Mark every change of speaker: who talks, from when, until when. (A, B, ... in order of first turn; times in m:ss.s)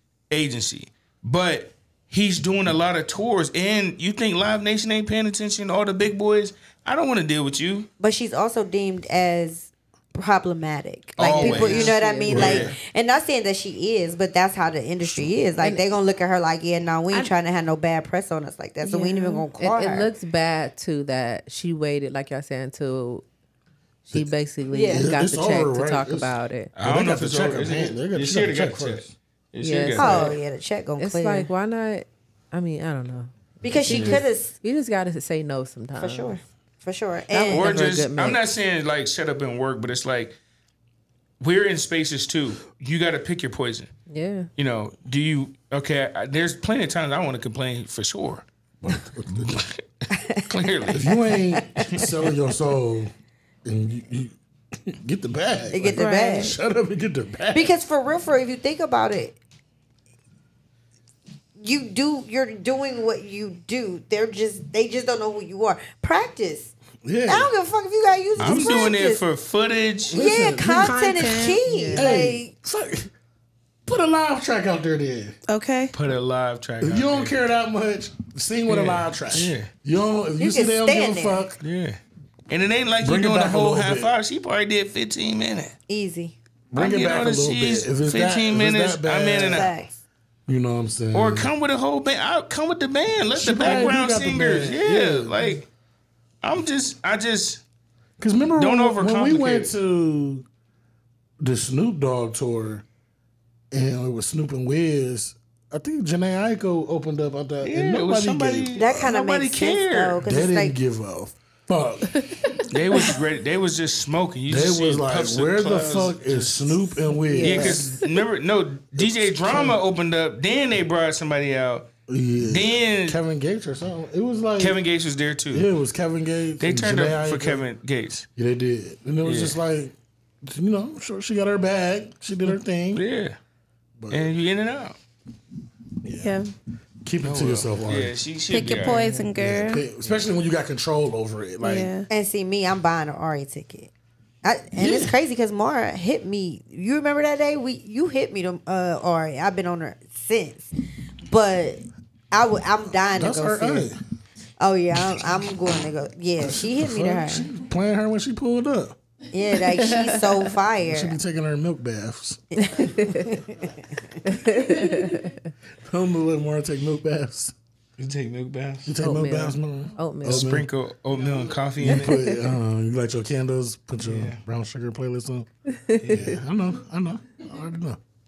0:00.3-0:07.9 A
0:08.0-0:20.1 B
0:11.2-0:12.8 A
0:11.2-0:12.4 C
0:11.7-0:12.8 D
0:15.0-0:15.4 D
0:15.6-0:15.9 C
0:18.8-0:23.2 C
0:24.1-0:26.7 C
0:24.7-0:25.1 B
0:24.9-0:29.1 D
0:26.8-0:30.4 A
0:29.6-0:30.4 C
0:30.0-0:31.5 B
0:31.0-0:36.4 C
0:33.6-0:34.5 B
0:33.9-0:34.2 D
0:36.0-0:37.8 B
0:37.3-0:38.4 C
0:37.5-0:40.4 A
0:41.4-0:43.9 A
0:44.1-0:44.5 C
0:44.6-0:48.4 A
0:48.8-0:49.6 D
0:49.5-0:49.8 A
0:50.4-0:51.2 A
0:50.9-0:53.1 D
0:53.6-0:54.3 D
0:54.9-0:57.8 D
0:55.7-0:56.6 B
0:56.0-0:56.4 E
0:57.5-0:59.4 B
1:01.6-1:06.7 B
1:07.0-1:07.5 D
1:07.3-1:09.2 B
1:08.4-1:10.2 A
1:08.4-1:08.9 D
1:10.1-1:12.5 B
1:10.1-1:11.0 D
1:10.6-1:11.8 E
1:11.8-1:12.1 C
1:11.9-1:13.1 D
1:13.9-1:15.4 D
1:15.5-1:15.9 E
1:15.9-1:17.4 A
1:16.8-1:21.6 D
1:18.7-1:19.7 A
1:20.4-1:21.4 B
1:21.6-1:25.7 A
1:23.0-1:24.1 D
1:25.9-1:26.4 B
1:26.7-1:29.7 D
1:26.8-1:29.7 A
1:29.5-1:30.0 B
1:30.5-1:31.5 D
1:31.1-1:35.7 A
1:33.3-1:35.6 D
1:36.4-1:37.6 A
1:38.2-1:40.4 D
1:38.6-1:39.7 A
1:41.4-1:42.8 D
1:43.7-1:49.1 D
1:47.6-1:50.2 A
1:48.8-1:50.8 B
1:50.2-1:52.6 D
1:52.7-1:56.8 A
1:54.5-1:58.0 D
1:57.2-1:58.1 C
1:57.4-1:57.8 B
1:57.4-2:01.9 A
1:59.0-1:59.8 D
2:02.1-2:04.8 D
2:02.4-2:03.2 A
2:04.6-2:05.7 A
2:05.5-2:07.7 D
2:06.6-2:08.3 A
2:08.4-2:13.0 D
2:09.2-2:09.6 A
2:12.9-2:13.4 A
2:14.0-2:14.3 D
2:14.1-2:15.0 A
2:16.0-2:16.4 D
2:16.2-2:16.5 E
2:17.0-2:18.2 D
2:17.2-2:19.3 A
2:18.5-2:19.8 E
2:19.3-2:22.0 D
2:20.0-2:20.3 A
2:21.6-2:22.1 E
2:22.1-2:23.9 B
2:24.4-2:30.7 B
2:24.8-2:25.1 D
2:31.3-2:33.9 B
2:33.1-2:34.0 D
2:34.6-2:37.5 B
2:36.4-2:39.0 D
2:39.3-2:41.2 B
2:39.9-2:40.3 C
2:40.9-2:42.4 D
2:42.6-2:43.7 B
2:44.3-2:45.3 C
2:45.9-2:47.5 D
2:48.0-2:48.9 A
2:48.8-2:50.7 D
2:49.0-2:50.5 C
2:50.2-2:52.2 A
2:51.8-2:55.5 D
2:51.9-2:52.4 C
2:54.0-2:54.4 A
2:55.9-2:56.4 C
2:56.0-2:56.4 A
2:56.1-2:58.0 D